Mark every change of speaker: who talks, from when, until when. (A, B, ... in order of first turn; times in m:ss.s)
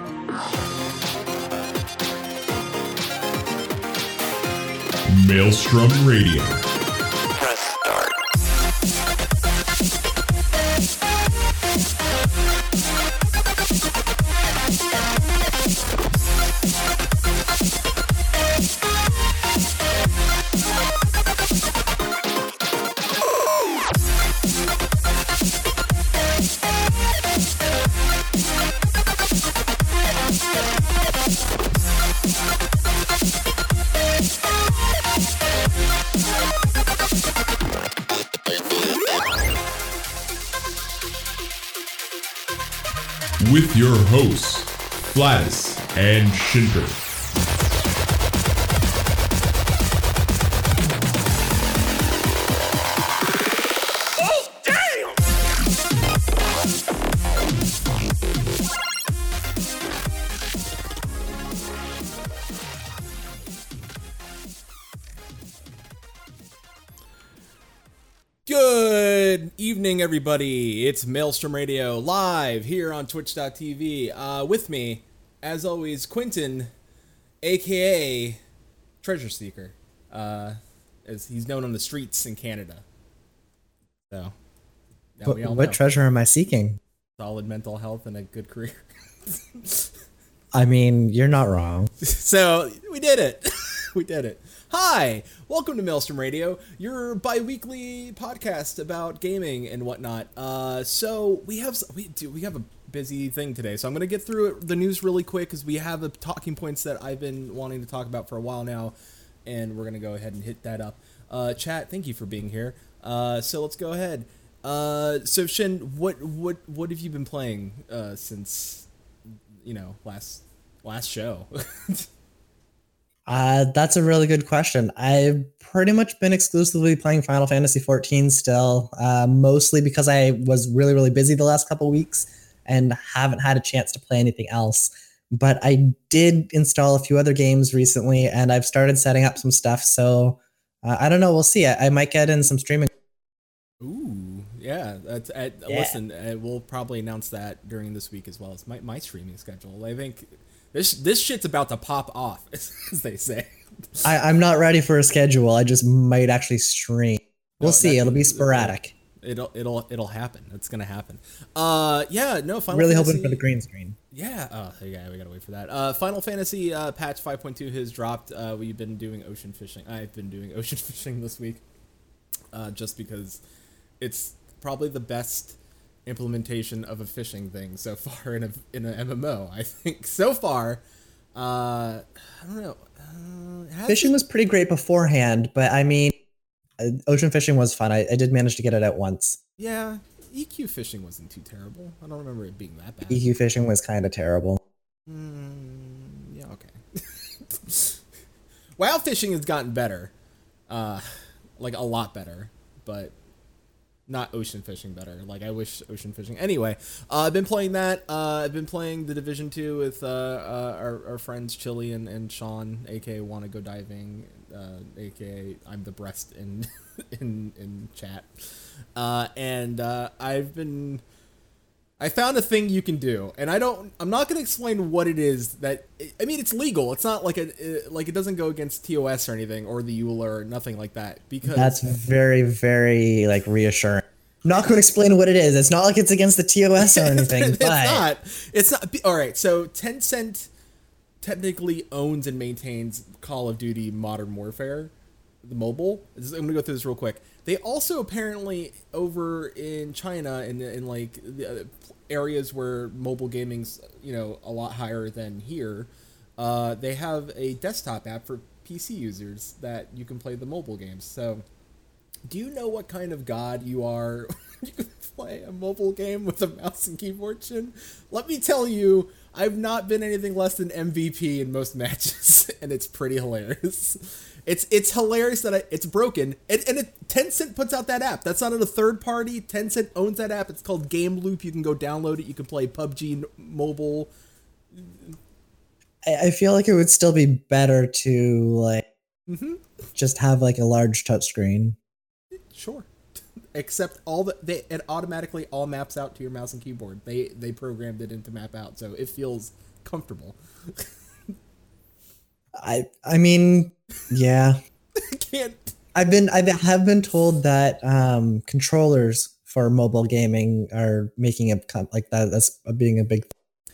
0:05.1-0:06.6 A
0:43.4-0:47.0 A
1:08.5-1:16.7 B
1:17.4-1:18.4 B
1:19.0-1:22.8 B
1:25.2-1:25.8 B
1:25.3-1:26.8 C
1:27.2-1:29.9 B
1:30.5-1:31.9 C
1:32.0-1:49.0 B
1:49.5-1:58.9 B
1:59.6-2:02.1 B
2:03.3-2:22.9 C
2:23.8-2:34.1 B
2:25.7-2:26.0 C
2:34.0-2:38.9 C
2:37.6-2:43.4 B
2:42.7-2:44.0 C
2:44.1-2:51.6 B
2:52.5-2:53.4 B
2:54.0-3:00.8 B
3:01.4-3:04.2 B
3:03.9-3:06.2 C
3:06.8-3:09.4 C
3:09.6-3:13.3 B
3:13.1-3:14.6 C
3:15.1-3:18.0 B
3:18.8-3:20.1 B
3:20.7-3:23.2 B
3:24.1-3:41.0 B
3:42.0-3:52.0 B
3:51.4-3:58.1 C
3:56.8-4:00.5 B
4:01.2-4:04.9 B
4:05.4-4:21.4 B
4:22.3-4:44.1 B
4:44.7-4:45.2 B
4:46.0-4:48.9 C
4:49.3-4:49.7 B
4:50.0-4:51.8 C
4:52.5-4:52.9 B
4:53.5-5:00.9 B
5:02.6-5:04.6 C
5:05.0-5:05.7 B
5:06.0-5:13.3 C